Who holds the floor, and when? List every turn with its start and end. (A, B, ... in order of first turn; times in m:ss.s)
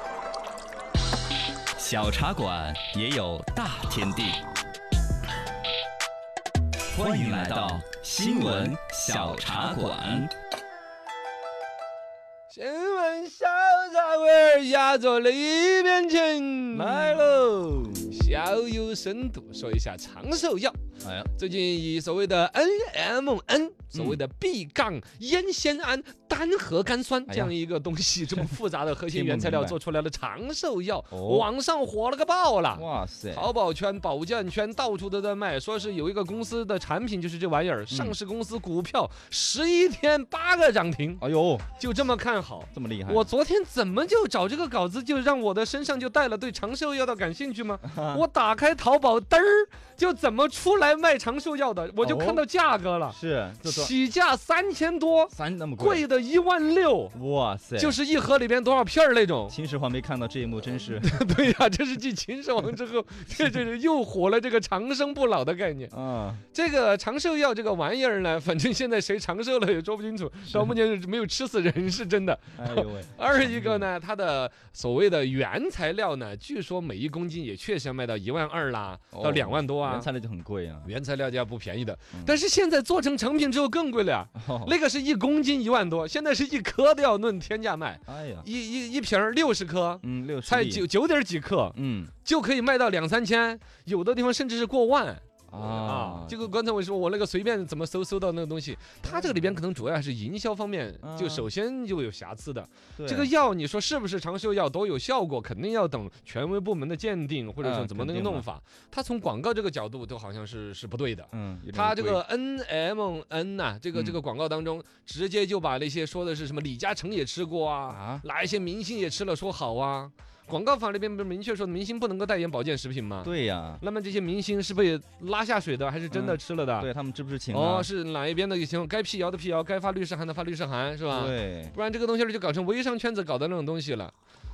0:01.8-0:04.4 A
0:06.9-0:10.3 A
0:12.5-0:17.2 B
0:16.7-0:18.1 A
0:18.1-0:20.8 B
0:21.0-0:21.3 A
0:21.3-0:41.2 B
0:23.9-0:24.2 A
0:27.3-0:27.5 A
0:29.1-0:29.8 A
0:31.1-0:31.5 A
0:32.7-0:33.5 A
0:37.9-0:38.2 A
0:41.2-0:41.7 A
0:41.8-0:57.1 B
0:42.7-0:43.3 A
0:47.8-0:48.2 A
0:52.0-0:52.4 A
0:53.1-0:53.9 A
0:55.3-0:56.0 A
0:57.1-0:58.0 A
0:57.8-0:59.5 B
0:59.5-1:01.2 A
1:00.9-1:05.9 B
1:05.9-1:06.4 A
1:06.5-1:20.1 B
1:10.5-1:10.8 A
1:12.5-1:13.9 A
1:19.1-1:20.9 A
1:20.8-2:06.9 B
1:24.4-1:24.7 A
1:28.1-1:28.5 A
1:30.0-1:30.8 A
1:31.7-1:32.1 A
1:35.5-1:36.5 A
1:39.0-1:39.6 A
1:41.0-1:41.5 A
1:43.0-1:43.3 A
1:47.6-1:48.5 A
1:51.3-1:52.2 A
1:57.9-1:58.2 A
2:03.2-2:03.8 A
2:06.1-2:07.9 A
2:07.5-2:14.1 B
2:11.1-2:11.7 A